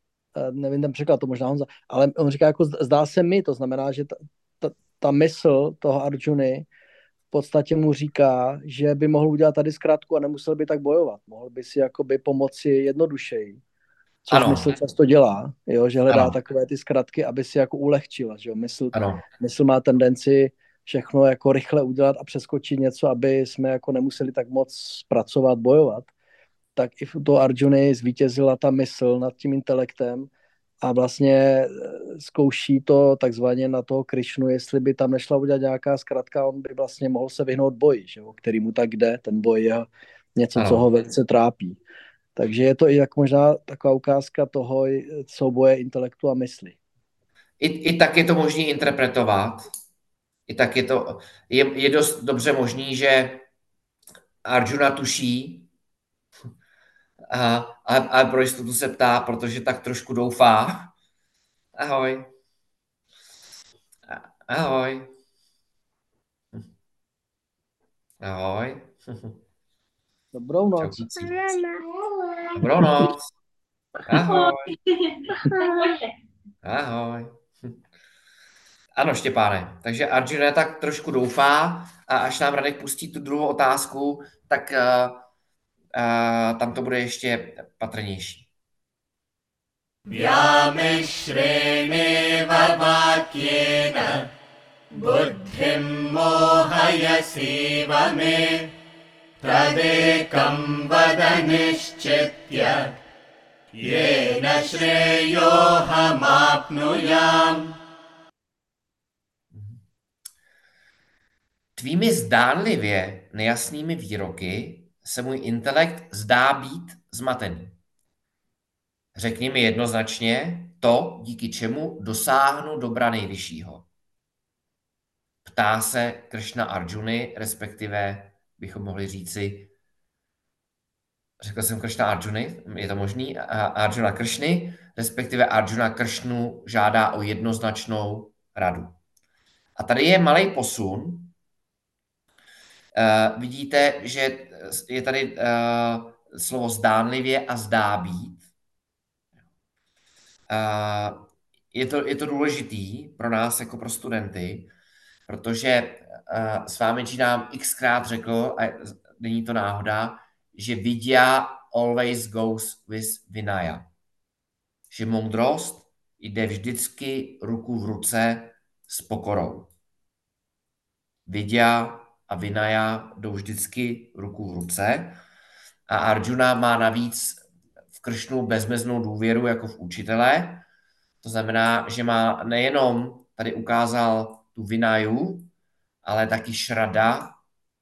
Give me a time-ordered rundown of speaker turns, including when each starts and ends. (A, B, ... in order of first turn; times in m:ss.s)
0:00.4-0:06.7 A
0:07.3-0:13.6 A
0:14.2-0:26.1 A
0:14.3-0:14.8 B
0:16.1-0:16.4 B
0:18.9-0:19.2 B
0:26.8-0:30.3 A
0:30.8-0:41.8 A
0:40.6-0:40.8 B
0:42.4-0:46.8 A
0:47.6-0:49.7 B
0:50.5-0:53.5 B
0:54.4-0:55.7 B
0:57.3-1:00.9 B
1:01.8-1:02.3 B
1:04.1-1:05.1 B
1:08.2-1:09.3 B
1:10.3-1:11.3 A
1:10.8-1:11.6 B
1:12.6-1:13.3 B
1:14.1-1:14.8 B
1:16.6-1:17.3 B
1:19.0-1:25.2 B
1:25.9-1:28.5 B
1:30.1-1:34.3 C
1:34.9-1:38.7 C
1:39.4-1:43.0 C
1:43.8-1:47.8 C
1:49.5-1:49.8 B
1:51.8-1:57.8 B
1:59.2-2:03.9 B
2:05.4-2:09.7 B
2:11.4-2:19.0 B
2:19.8-2:21.3 B
2:23.0-2:28.4 B
2:30.5-2:34.7 B
2:35.3-2:43.9 B
2:44.9-2:49.7 B
2:51.3-2:55.2 B
2:55.9-2:57.4 B
2:58.0-3:00.6 B
3:01.2-3:05.5 B
3:06.0-3:07.4 B